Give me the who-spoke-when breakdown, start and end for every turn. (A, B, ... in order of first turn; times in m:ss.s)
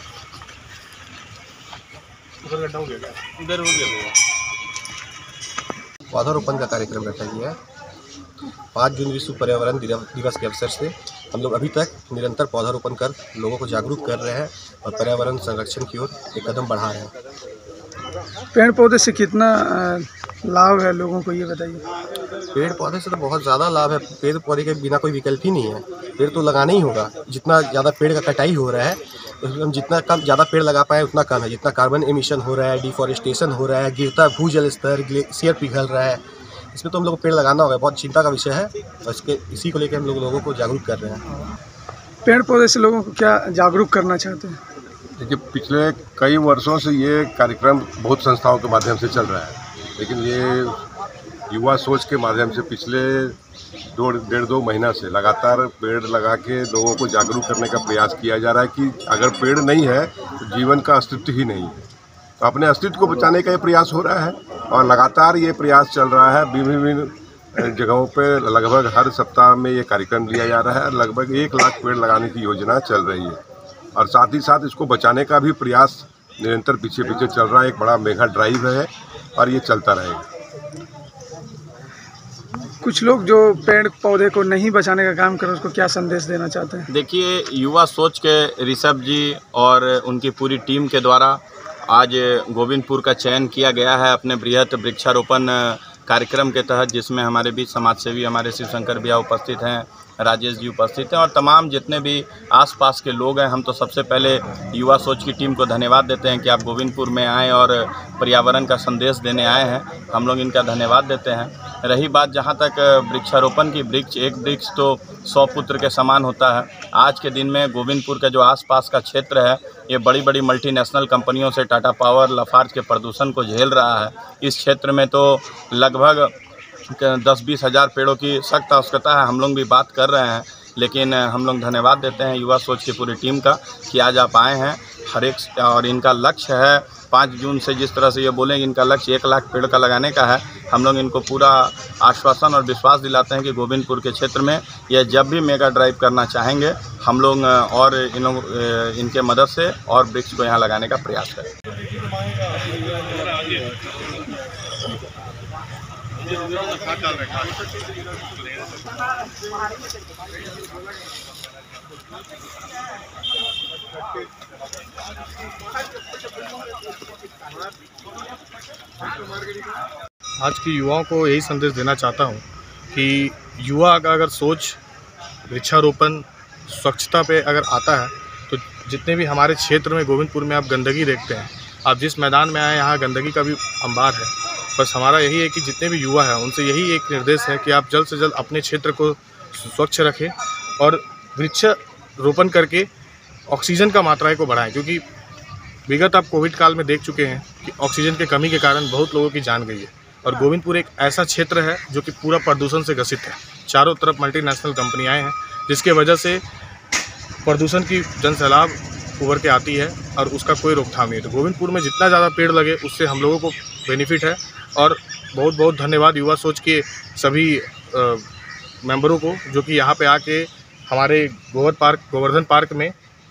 0:02.4-0:04.1 A
0:06.1-0:07.6 B
0:08.7-0:17.1 B
0:18.5-0:21.8 C
0:22.5-0:36.2 B
0:36.7-0:41.2 B
0:42.2-0:44.6 C
0:45.2-0:50.8 D
0:51.5-0:53.4 D
0:53.9-1:01.9 D
1:02.4-1:13.4 D
1:13.9-1:20.2 D
1:22.8-1:26.9 C
1:26.9-2:06.3 E
2:06.9-2:31.5 E
2:36.8-2:37.3 A
2:50.4-2:54.8 A
2:55.5-3:12.9 A
3:13.5-3:15.0 A
3:15.9-3:26.4 A
3:27.4-3:38.2 A
3:38.8-3:42.9 A